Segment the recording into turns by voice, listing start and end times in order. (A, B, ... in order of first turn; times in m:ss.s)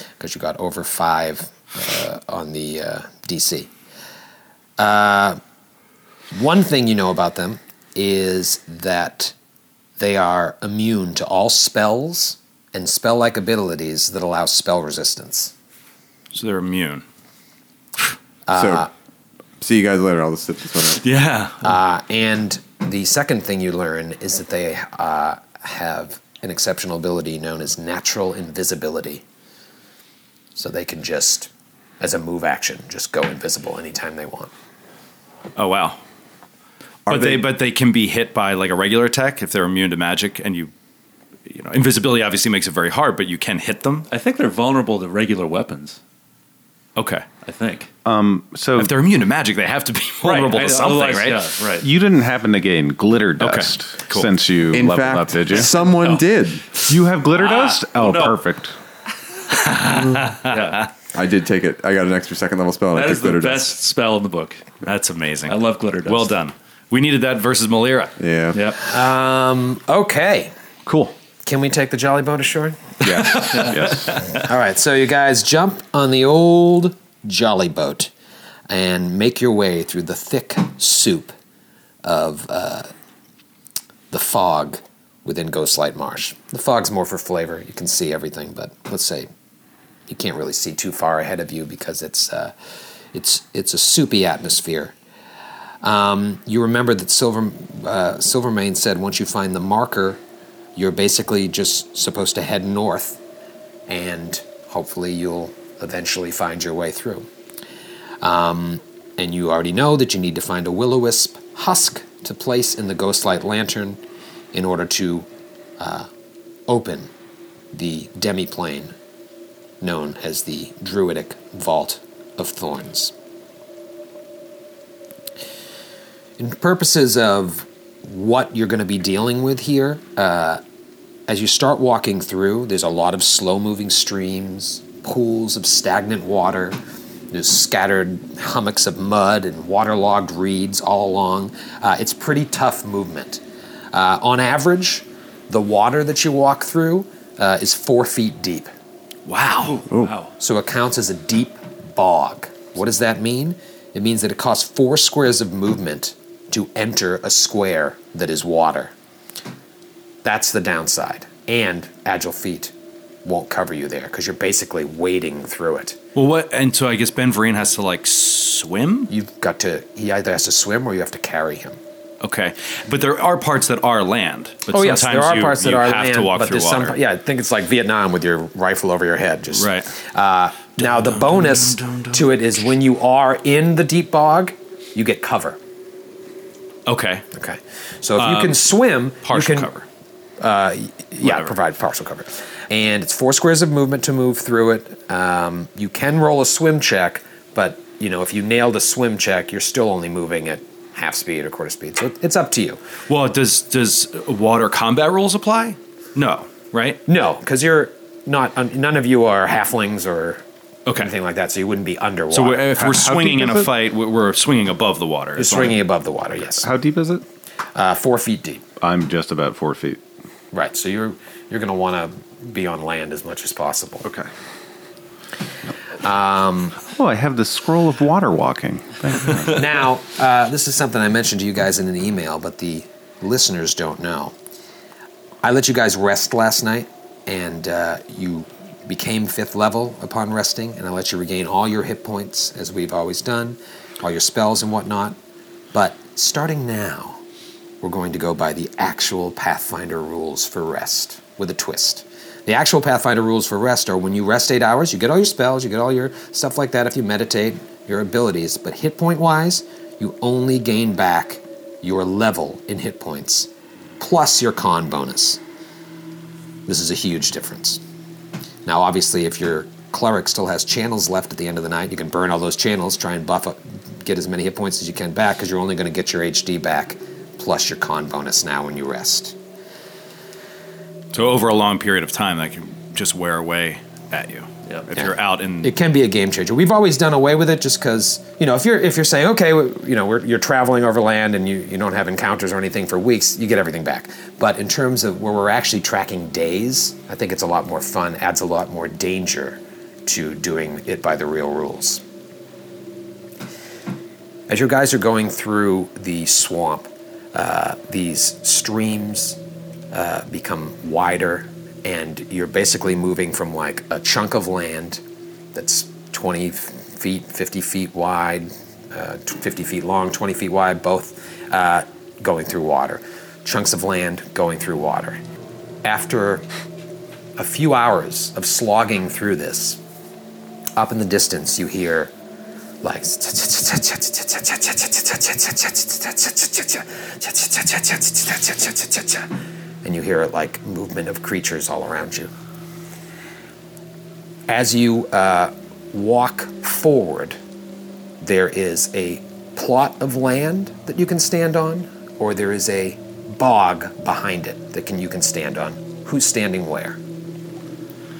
0:00.2-0:03.7 A
0:04.8-0:05.4 A
0:06.3-0:09.3 A
0:10.0-0:15.5 A
0:16.3-0:17.0 B
0:18.5-0:18.9 A
0:18.5-0:18.9 C
0:19.6-0:21.0 C
0:20.9-0:21.7 B
0:21.6-0:29.2 A
0:30.5-0:34.5 A
0:35.6-0:36.0 B
0:37.1-0:37.4 C
0:37.1-0:40.7 B
0:41.5-0:44.1 B
0:44.1-0:46.0 D
0:47.0-0:47.2 B
0:47.4-0:47.9 D
0:48.0-0:48.9 E
0:48.8-0:51.4 B
0:50.2-0:51.9 D
0:51.8-0:55.7 E
0:53.4-0:54.3 B
0:54.7-0:56.6 C
0:56.0-0:56.2 D
0:56.8-0:58.7 E
0:57.3-0:58.4 D
0:59.5-1:00.9 B
1:00.4-1:00.8 D
1:01.1-1:03.8 C
1:02.9-1:04.7 D
1:04.8-1:08.1 B
1:05.5-1:06.3 D
1:08.2-1:08.6 C
1:08.5-1:08.8 D
1:08.8-1:10.5 A
1:10.8-1:11.1 E
1:11.4-1:13.8 A
1:13.0-1:14.2 E
1:13.2-1:14.3 B
1:14.3-1:18.1 A
1:18.7-1:21.3 A
1:22.0-1:22.9 A
1:24.1-1:29.3 A
1:30.1-1:32.5 A
1:33.1-1:34.9 A
1:35.8-1:40.2 A
1:40.8-1:43.2 A
1:43.9-1:47.3 A
1:48.2-1:54.0 A
1:54.5-1:55.3 A
1:55.8-1:56.1 A
1:56.7-1:57.1 A
1:57.7-1:58.9 A
1:59.8-2:03.1 A
2:06.4-2:10.6 A
2:11.3-2:16.8 A
2:17.3-2:23.4 A
2:23.9-2:28.7 A
2:29.3-2:29.8 B
2:29.9-2:30.2 C
2:30.0-2:30.3 D
2:30.4-2:38.9 A
2:40.2-2:42.7 A
2:43.2-2:46.0 A
2:46.1-2:49.1 B
2:49.1-2:51.8 A
2:52.2-2:57.0 B
2:54.7-3:05.6 A
2:59.5-2:59.9 B
3:00.8-3:02.3 B
3:06.8-3:07.2 B
3:07.3-3:09.7 A
3:08.2-3:08.6 B
3:09.2-3:09.8 B
3:10.4-3:22.8 A
3:11.2-3:11.5 B
3:23.1-3:27.0 B
3:27.1-3:30.4 A
3:30.8-3:31.1 B
3:31.0-3:32.8 A
3:32.3-3:35.8 B
3:32.8-3:33.7 E
3:35.4-3:36.7 A
3:36.6-3:37.2 E
3:37.7-3:38.6 A
3:38.8-3:40.0 E
3:40.5-3:44.0 A
3:46.0-3:46.8 A
3:46.8-3:49.6 E
3:49.5-3:54.3 A
3:55.4-4:05.2 A
4:05.7-4:07.2 A
4:07.8-4:23.5 A
4:24.0-4:25.4 A
4:26.7-4:27.8 A
4:28.6-4:39.4 A
4:41.1-4:45.7 B
4:45.0-5:02.0 A
5:04.5-5:09.4 A
5:09.9-5:15.0 A
5:15.5-5:25.2 A
5:25.8-5:26.4 A
5:27.4-5:29.8 A
5:30.8-5:32.1 A
5:32.8-5:39.3 A
5:39.8-5:42.3 A
5:44.5-5:47.4 A
5:48.2-5:57.0 A